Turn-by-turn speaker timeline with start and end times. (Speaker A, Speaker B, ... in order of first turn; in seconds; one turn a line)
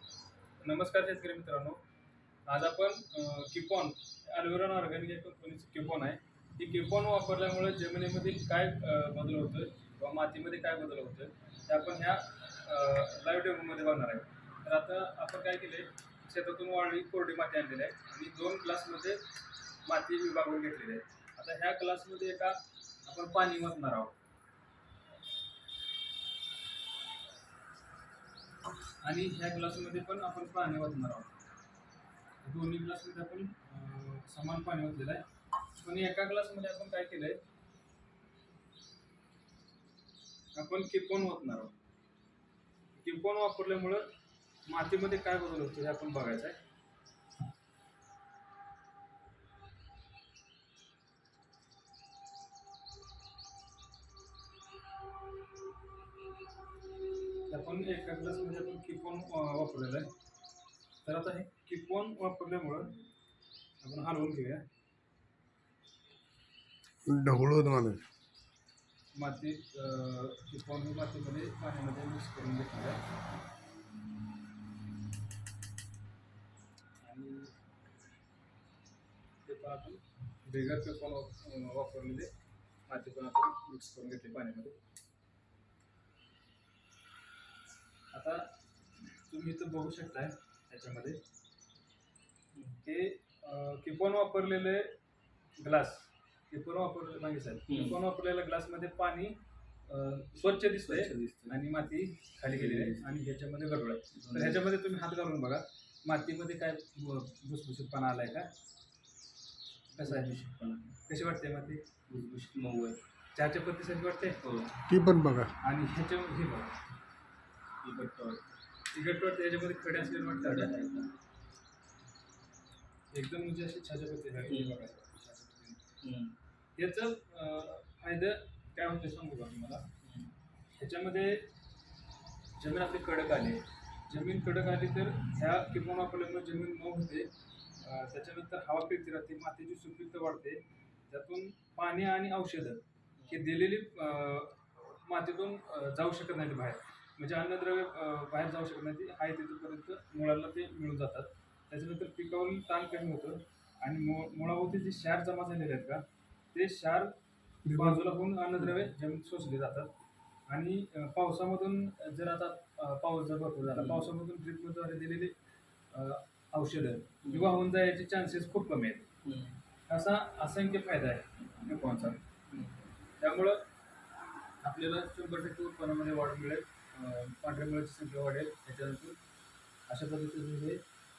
Speaker A: 0.6-1.8
Speaker A: 2.5-19.2
Speaker A: 19.9-24.2
Speaker A: 29.0-31.3
Speaker A: 32.4-35.2
Speaker A: 35.8-37.4
Speaker A: 40.5-41.8
Speaker A: 43.0-44.1
Speaker A: 44.7-46.6
Speaker A: 57.5-60.1
Speaker A: 61.0-63.0
Speaker A: 63.8-64.6
Speaker B: 67.0-68.0
Speaker A: 69.1-73.0
Speaker A: 77.0-77.6
Speaker A: 79.5-82.3
Speaker A: 82.9-84.8
Speaker A: 88.1-91.2
Speaker C: 92.5-92.8
Speaker A: 92.8-95.0
Speaker A: 95.6-108.5
Speaker C: 97.7-98.0
Speaker C: 100.6-101.6
Speaker C: 102.5-103.1
Speaker C: 104.1-104.6
Speaker C: 109.9-111.0
Speaker A: 110.0-110.4
Speaker A: 111.0-111.9
Speaker C: 112.1-113.0
Speaker A: 113.3-114.4
Speaker C: 114.4-114.8
Speaker B: 114.9-115.5
Speaker A: 115.6-116.8
Speaker C: 117.8-118.5
Speaker A: 118.9-121.1
Speaker A: 123.1-125.8
Speaker C: 124.5-124.8
Speaker C: 126.0-126.4
Speaker A: 126.8-129.9
Speaker C: 130.0-130.3
Speaker A: 130.7-131.5
Speaker A: 132.6-157.1
Speaker C: 143.2-143.5
Speaker B: 157.7-158.0
Speaker A: 157.7-159.9
Speaker A: 160.5-165.3
Speaker C: 163.7-164.1
Speaker A: 165.9-169.1
Speaker C: 167.2-167.5
Speaker C: 169.2-169.6
Speaker A: 169.9-172.2
Speaker C: 172.5-172.8
Speaker A: 173.2-173.6
Speaker A: 174.6-179.2
Speaker A: 179.9-180.8